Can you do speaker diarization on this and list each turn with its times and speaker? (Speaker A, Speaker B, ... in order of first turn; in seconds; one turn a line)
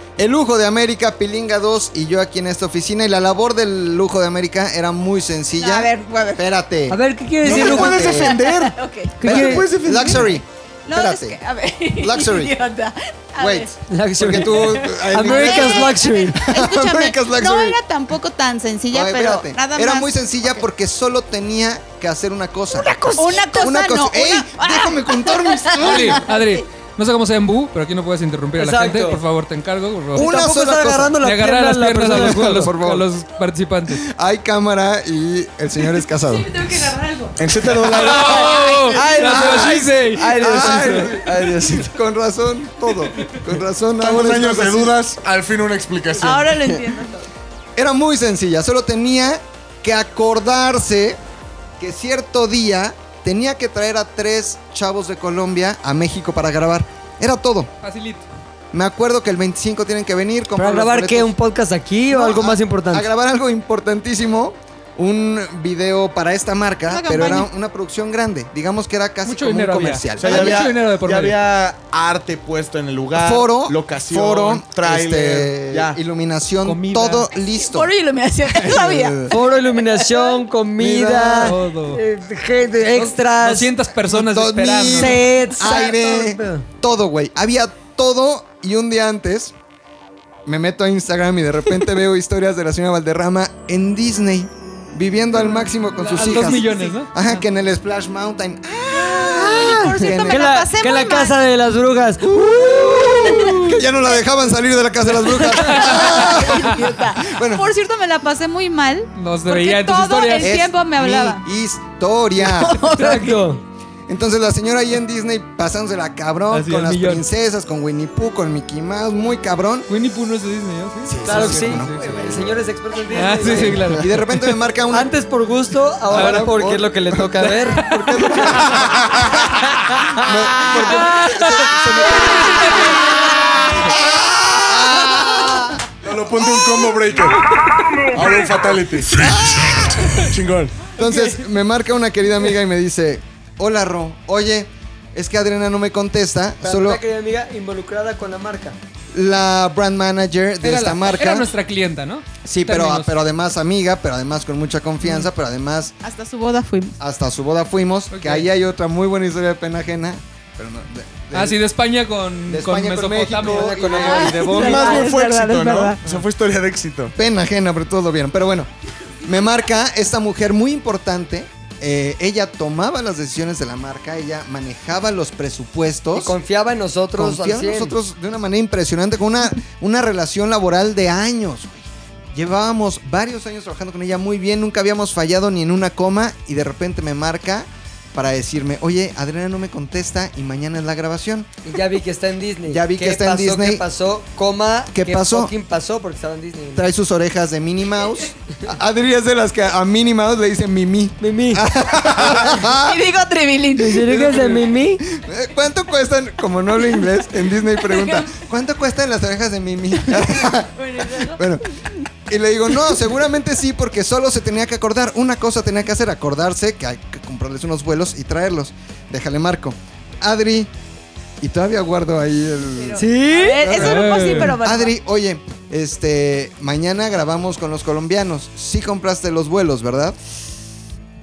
Speaker A: 0.2-8.3
Speaker B: 5.6-6.5
Speaker C: 6.9-8.3
Speaker D: 7.4-10.3
Speaker B: 8.2-9.2
Speaker C: 9.2-9.7
Speaker A: 9.2-11.4
Speaker B: 10.8-13.7
Speaker A: 12.0-12.5
Speaker A: 13.4-17.8
Speaker C: 13.9-16.4
Speaker B: 14.3-20.6
Speaker A: 18.9-26.2
Speaker B: 23.1-26.5
Speaker E: 25.8-30.3
Speaker C: 28.6-29.2
Speaker A: 30.1-31.2
Speaker C: 30.1-32.7
Speaker E: 31.2-34.0
Speaker A: 32.1-33.1
Speaker A: 34.0-36.7
Speaker B: 36.3-37.3
Speaker D: 37.4-38.6
Speaker E: 37.9-41.0
Speaker B: 38.5-38.9
Speaker A: 39.0-45.0
Speaker C: 39.0-41.2
Speaker D: 44.0-46.6
Speaker B: 46.2-47.3
Speaker A: 47.8-51.2
Speaker A: 51.8-57.7
Speaker E: 57.8-58.2
Speaker A: 58.7-61.3
Speaker C: 60.5-63.1
Speaker A: 62.1-70.7
Speaker B: 66.9-67.5
Speaker E: 69.2-71.4
Speaker D: 70.2-76.0
Speaker A: 73.1-77.9
Speaker E: 76.6-77.3
Speaker B: 77.5-80.3
Speaker A: 78.5-79.3
Speaker C: 79.3-83.7
Speaker A: 80.8-81.6
Speaker E: 81.4-82.0
Speaker E: 82.9-85.2
Speaker A: 84.0-89.5
Speaker C: 84.9-86.7
Speaker A: 90.5-100.5
Speaker E: 96.0-97.4
Speaker B: 99.2-101.3
Speaker C: 100.3-103.7
Speaker A: 102.2-107.7
Speaker E: 105.6-106.6
Speaker B: 105.7-111.4
Speaker E: 109.2-110.5
Speaker A: 110.4-112.9
Speaker B: 112.5-113.3
Speaker E: 112.9-113.4
Speaker C: 112.9-113.6
Speaker A: 114.1-119.9
Speaker E: 116.5-117.2
Speaker E: 119.9-122.0
Speaker A: 121.0-122.6
Speaker C: 121.2-124.0
Speaker E: 123.1-124.2
Speaker A: 123.4-125.1
Speaker C: 124.9-127.9
Speaker A: 126.1-129.3
Speaker E: 126.1-126.5
Speaker E: 127.4-128.3
Speaker D: 128.8-129.3
Speaker A: 130.2-135.8
Speaker E: 130.7-133.1
Speaker D: 136.0-137.4
Speaker D: 138.0-139.3
Speaker A: 139.1-140.2
Speaker D: 140.1-140.9
Speaker A: 140.9-147.0
Speaker C: 146.6-148.8
Speaker A: 149.1-151.5
Speaker E: 150.6-153.2
Speaker A: 152.4-155.9
Speaker B: 156.0-156.9
Speaker A: 157.0-161.6
Speaker E: 158.1-158.5
Speaker E: 161.3-163.9
Speaker A: 162.5-164.9
Speaker C: 163.4-165.1
Speaker B: 163.9-166.0
Speaker D: 164.6-167.1
Speaker A: 167.2-168.7
Speaker A: 169.2-176.4
Speaker C: 176.1-177.9
Speaker A: 177.1-191.5
Speaker C: 191.6-196.9
Speaker A: 192.7-193.8
Speaker A: 194.9-195.5
Speaker A: 196.7-203.0
Speaker C: 201.2-201.6
Speaker B: 202.7-204.2
Speaker C: 203.8-205.0
Speaker A: 204.1-211.6
Speaker B: 207.8-208.3
Speaker B: 210.1-211.4
Speaker A: 212.3-220.7
Speaker A: 221.4-230.2
Speaker B: 222.7-224.9
Speaker C: 222.9-223.8
Speaker E: 223.8-224.5